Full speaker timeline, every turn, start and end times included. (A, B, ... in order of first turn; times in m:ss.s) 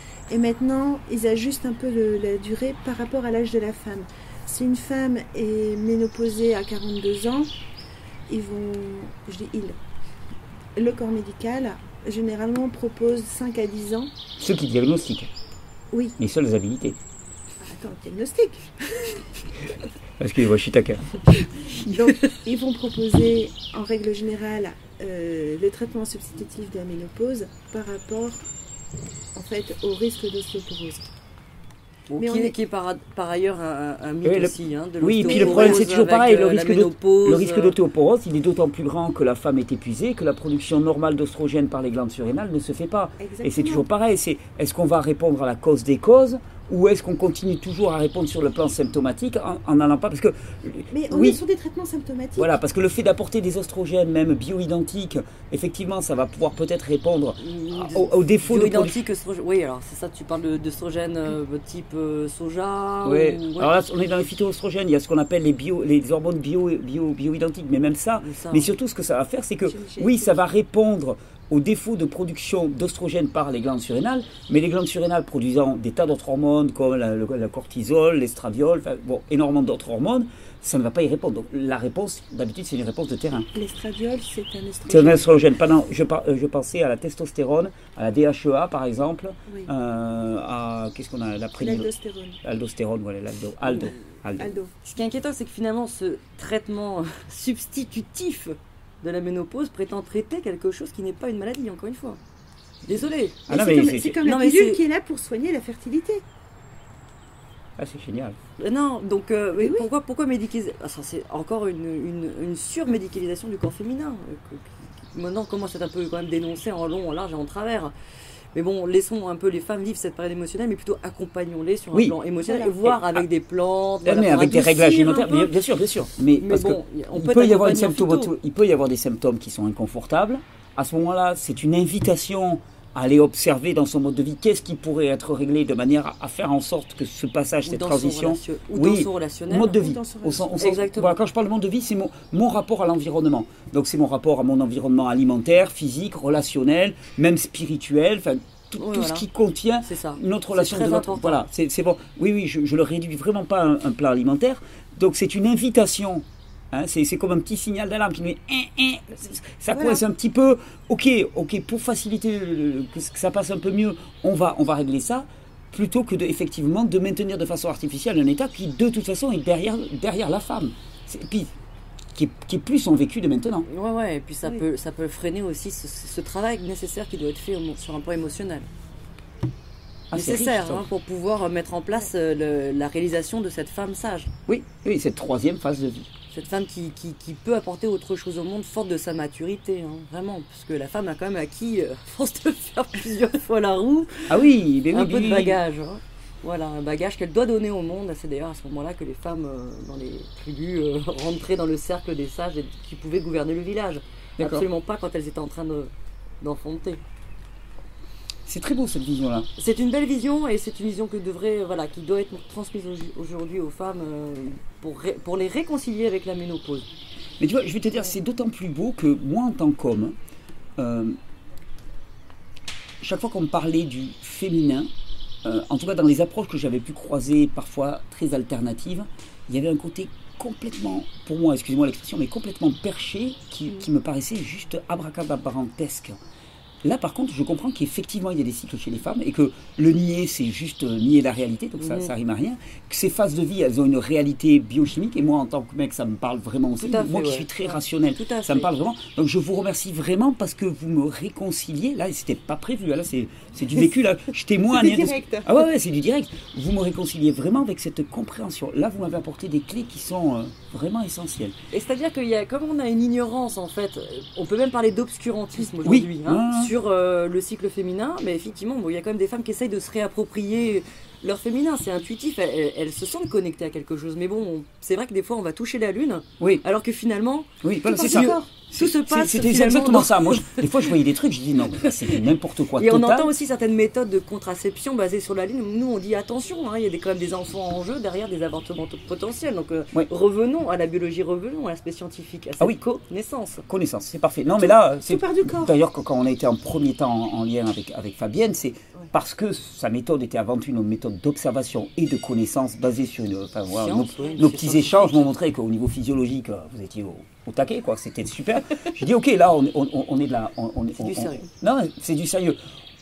0:00.3-0:07.5 A
0:08.3-0:09.8 A
0:10.8-0:14.1 A
0:14.4-0:15.3 B
0:15.9-0:16.2 A
0:16.2-0:17.0 B
0:17.6-0:19.2 A
0:20.2-0:21.1 B
0:21.8-0:28.4 A
0:29.3-0:31.1 A
0:32.1-0:37.8 C
0:32.2-0:32.5 A
0:34.2-0:51.4 B
0:35.2-0:35.9 A
0:43.2-0:43.8 A
0:50.9-0:52.5 A
0:52.4-0:59.0 B
0:57.4-1:03.8 C
1:03.0-1:23.5 B
1:08.2-1:08.7 C
1:09.6-1:10.4 A
1:23.5-1:25.3 A
1:24.9-1:31.9 B
1:31.6-1:32.4 A
1:32.4-1:34.6 B
1:34.4-1:34.7 A
1:34.8-1:42.2 C
1:42.8-1:43.5 C
1:43.5-1:44.2 B
1:43.5-1:46.2 A
1:44.2-1:44.8 C
1:47.8-1:48.4 B
1:48.6-1:57.9 C
1:49.6-1:49.9 A
1:58.5-2:05.6 C
2:02.4-2:02.7 A
2:02.8-2:03.2 B
2:04.0-2:51.5 B
2:06.4-2:08.3 C
2:17.6-2:19.7 C
2:19.6-2:20.8 A
2:20.6-2:21.2 C
2:28.8-2:29.3 C
2:29.8-2:31.4 C
2:39.7-2:40.0 A
2:52.1-2:53.7 B
2:53.7-2:58.7 C
3:00.1-3:00.8 B
3:00.1-3:04.3 C
3:04.5-3:06.1 B
3:06.3-3:27.0 C
3:14.3-3:15.6 B
3:24.4-3:24.6 B
3:28.4-3:29.5 B
3:29.6-3:36.9 C
3:37.4-3:40.2 B
3:40.8-3:41.2 B
3:43.0-3:44.9 B
3:45.4-3:56.2 B
3:56.8-4:21.5 B
4:01.8-4:02.1 C
4:06.8-4:08.7 C
4:14.7-4:15.6 A
4:21.7-4:40.9 C
4:25.8-4:26.7 B
4:37.6-4:43.3 B
4:37.8-4:38.5 A
4:41.8-4:53.6 C
4:53.6-5:12.6 B
4:54.6-4:55.7 A
5:03.7-5:05.3 C
5:11.0-5:11.4 C